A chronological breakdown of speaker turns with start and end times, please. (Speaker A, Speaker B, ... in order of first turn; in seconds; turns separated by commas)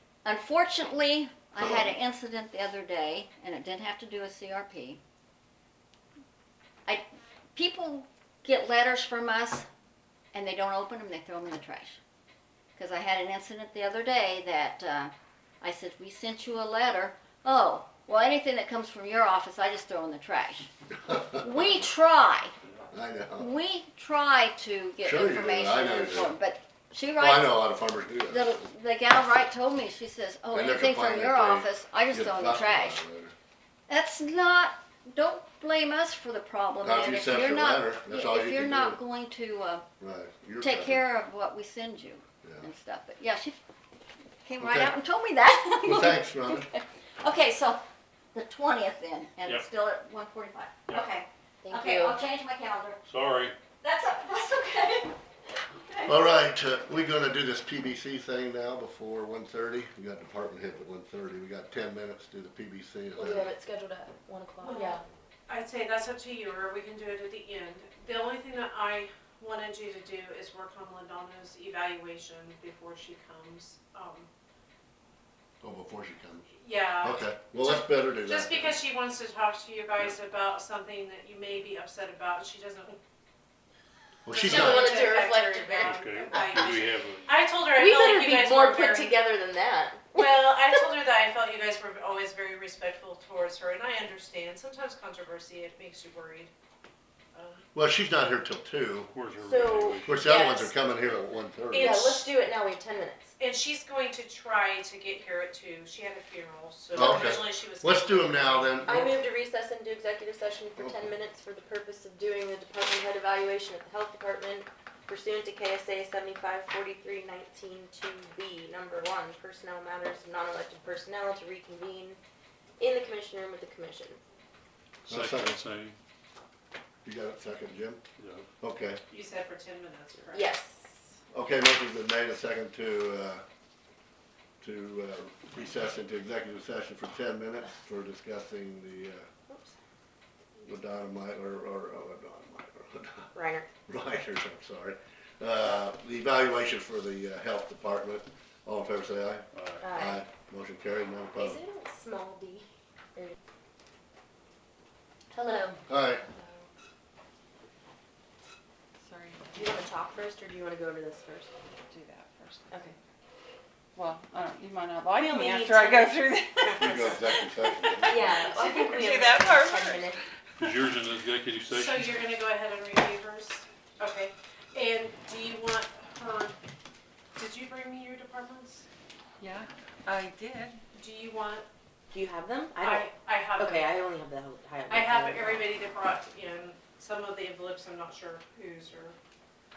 Speaker A: 0.2-5.0, Speaker B: 1.6-1.9, Speaker A: 6.8-9.7, Speaker A: 10.3-12.0, Speaker A: 12.8-22.5, Speaker B: 21.1-21.7, Speaker B: 22.9-23.5, Speaker A: 23.4-27.6, Speaker B: 25.0-26.3, Speaker B: 27.2-28.4, Speaker A: 28.3-33.0, Speaker B: 30.5-33.3, Speaker A: 33.9-39.9, Speaker B: 36.8-39.0, Speaker B: 40.0-41.0, Speaker A: 40.6-43.5, Speaker A: 44.4-47.8, Speaker B: 44.6-44.9, Speaker B: 45.8-46.7, Speaker A: 48.3-53.0, Speaker C: 51.6-52.2, Speaker D: 53.0-53.5, Speaker A: 53.8-56.2, Speaker B: 56.0-63.5, Speaker C: 63.1-65.0, Speaker E: 64.6-74.3, Speaker B: 75.6-76.5, Speaker E: 76.6-83.0, Speaker B: 77.0-78.8, Speaker B: 84.2-84.9, Speaker E: 84.3-89.2, Speaker C: 84.4-86.1, Speaker D: 85.8-87.3, Speaker C: 87.7-90.1, Speaker E: 90.1-96.5, Speaker E: 97.3-97.6, Speaker B: 97.7-99.1, Speaker D: 99.1-100.4, Speaker C: 99.4-100.7, Speaker B: 100.0-102.0, Speaker E: 101.7-102.3, Speaker C: 101.8-103.3, Speaker E: 103.4-109.2, Speaker B: 106.9-109.1, Speaker C: 108.8-122.2, Speaker C: 122.8-124.2, Speaker D: 125.0-126.0, Speaker B: 125.1-125.6, Speaker B: 127.0-128.0, Speaker D: 128.2-128.4, Speaker B: 128.6-129.0, Speaker E: 129.1-130.5, Speaker C: 130.3-131.1, Speaker B: 131.3-133.4, Speaker B: 134.6-139.2, Speaker C: 139.5-139.7, Speaker B: 140.6-143.3, Speaker C: 143.3-143.7, Speaker B: 143.9-151.6, Speaker D: 149.5-149.9, Speaker C: 149.8-150.2, Speaker C: 151.3-153.4, Speaker C: 155.3-156.6, Speaker B: 155.9-156.2, Speaker F: 159.0-159.9, Speaker C: 159.5-161.5, Speaker F: 161.9-162.9, Speaker C: 162.7-162.9, Speaker F: 163.9-170.7, Speaker C: 165.1-166.9, Speaker B: 166.8-168.4, Speaker C: 168.0-170.2, Speaker D: 170.6-172.3, Speaker E: 171.7-176.6, Speaker E: 177.3-178.9, Speaker F: 179.4-180.8, Speaker E: 180.9-181.7, Speaker C: 182.1-185.7, Speaker E: 182.8-183.9, Speaker E: 184.9-189.2